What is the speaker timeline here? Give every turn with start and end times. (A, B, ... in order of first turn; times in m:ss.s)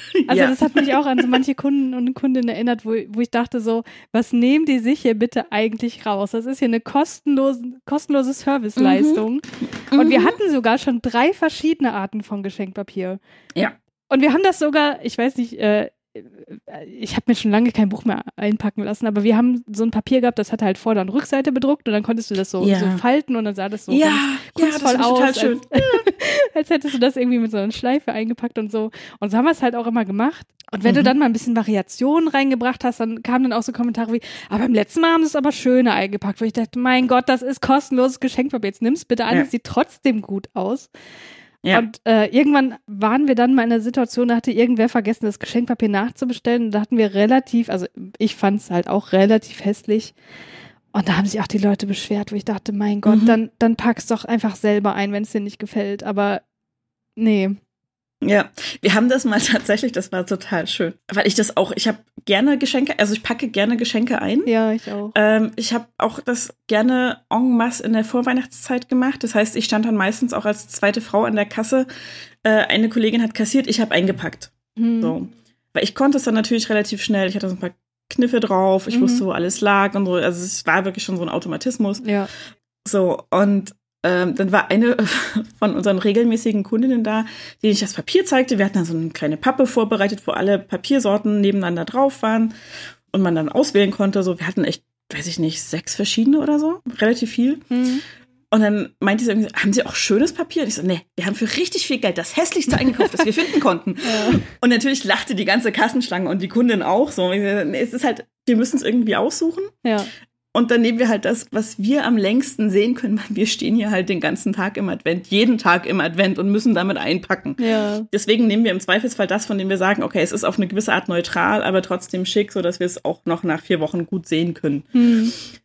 0:00.3-0:01.2 A
0:00.3-0:13.2 B
0:08.8-0:09.2 A
0:09.9-0:10.4 A
0:14.1-0:40.9 B
0:22.6-0:23.0 A
0:23.9-0:26.0 A
0:30.8-0:31.1 A
0:41.7-0:50.1 B
0:50.9-0:56.4 B
0:53.1-0:53.4 A
0:57.2-0:57.6 B
0:58.2-1:04.5 A
1:04.5-1:05.1 B
1:05.1-1:11.9 A
1:12.4-1:22.1 A
1:14.8-1:15.1 B
1:18.9-1:19.2 B
1:22.0-1:22.3 B
1:22.8-1:32.5 A
1:33.1-1:37.7 A
1:37.7-1:38.0 B
1:38.5-1:49.8 A
1:44.0-1:44.4 B
1:50.5-2:05.0 A
1:57.6-1:58.1 B
2:05.0-2:05.4 B